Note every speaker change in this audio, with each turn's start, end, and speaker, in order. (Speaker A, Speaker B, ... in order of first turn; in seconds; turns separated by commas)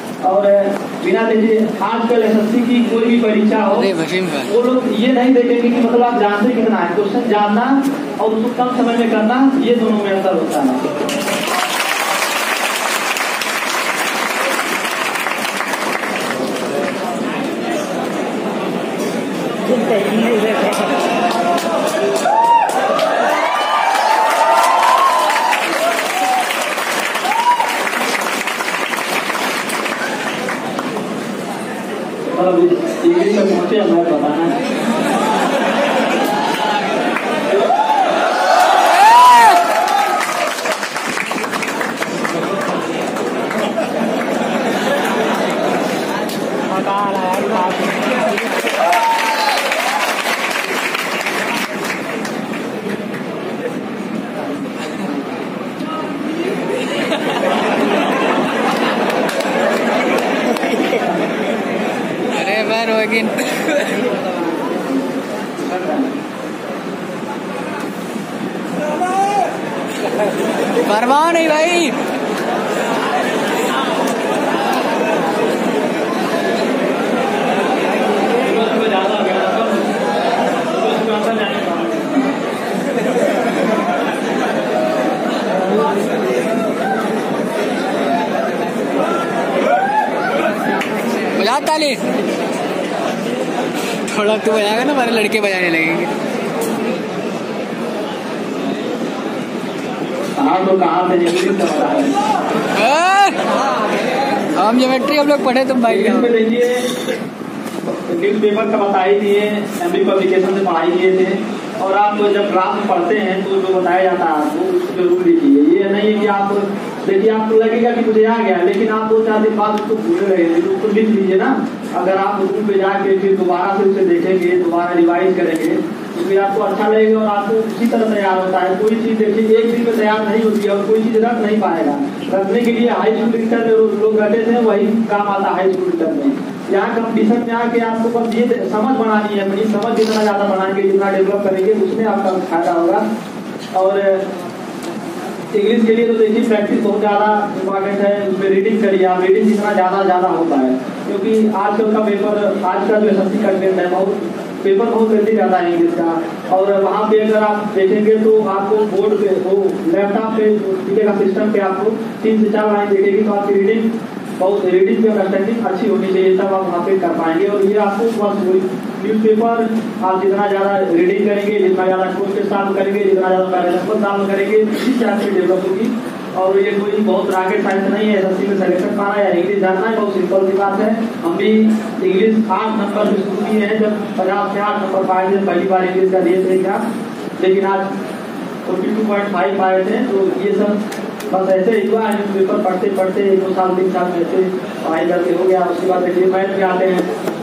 Speaker A: 0.2-10.9, Speaker B: 3.9-4.5, Speaker A: 32.3-34.6, Speaker B: 62.3-64.1, Speaker A: 65.6-66.1, Speaker B: 70.8-72.0, Speaker A: 78.4-79.9, Speaker A: 80.7-82.4, Speaker B: 91.3-92.0, Speaker B: 94.1-96.2, Speaker A: 100.4-102.2, Speaker B: 102.8-103.5, Speaker B: 104.5-106.1, Speaker A: 105.8-107.0, Speaker A: 107.8-143.1, Speaker A: 143.7-144.3, Speaker A: 145.5-186.8, Speaker A: 187.4-187.9, Speaker A: 188.7-190.8, Speaker A: 191.3-197.1